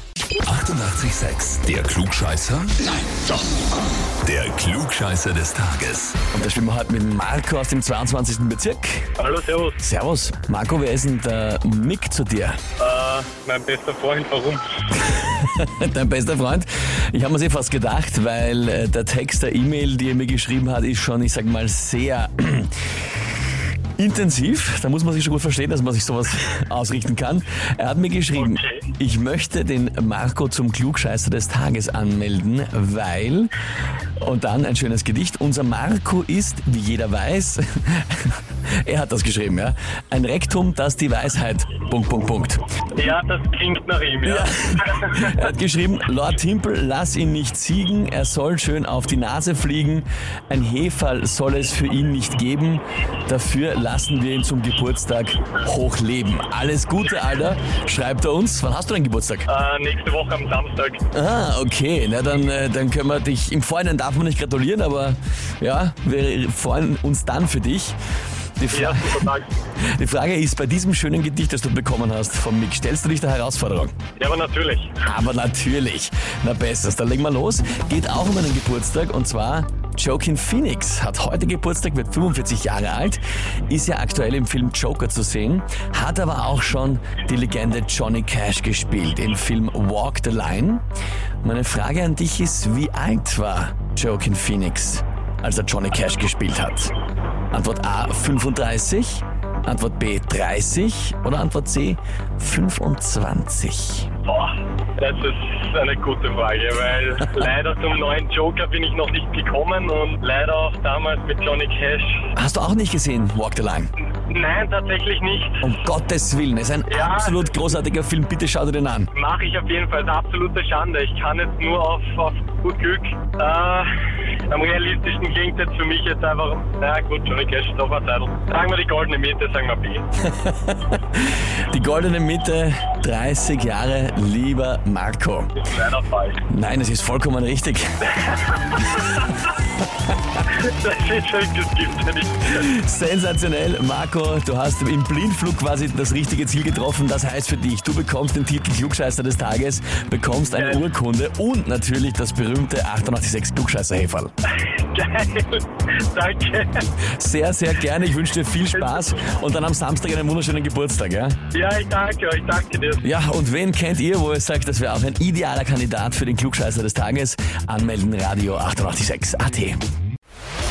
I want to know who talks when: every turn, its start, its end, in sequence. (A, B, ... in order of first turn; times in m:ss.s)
0:00.4-0:02.8 A
0:04.2-0:06.2 A
0:06.3-0:09.1 B
0:09.2-0:09.8 C
0:09.8-0:12.6 B
0:12.8-0:14.7 C
0:15.0-0:22.7 B
0:24.0-0:33.5 B
0:28.3-0:28.9 C
0:34.2-0:42.6 B
0:43.0-0:45.3 C
0:44.2-0:59.5 B
0:59.5-1:01.0 C
1:01.1-1:08.0 B
1:08.6-1:09.3 B
1:08.7-1:09.5 C
1:09.8-1:13.9 B
1:14.2-1:15.0 C
1:15.0-1:30.8 B
1:31.4-1:36.9 B
1:37.5-1:44.1 B
1:44.2-1:52.3 C
1:52.4-1:53.9 B
1:54.2-1:55.7 C
1:55.6-1:59.1 B
1:56.9-1:57.6 C
1:59.1-2:03.9 C
2:04.5-2:10.1 C
2:10.2-2:15.5 B
2:15.6-2:16.4 C
2:16.5-2:18.0 B
2:18.2-2:19.1 C
2:20.4-2:22.7 C
2:22.5-2:34.3 B
2:30.5-2:30.8 C
2:34.7-2:36.8 C
2:37.2-2:41.4 B
2:38.7-2:39.2 C
2:41.5-2:43.0 C
2:43.0-2:49.8 B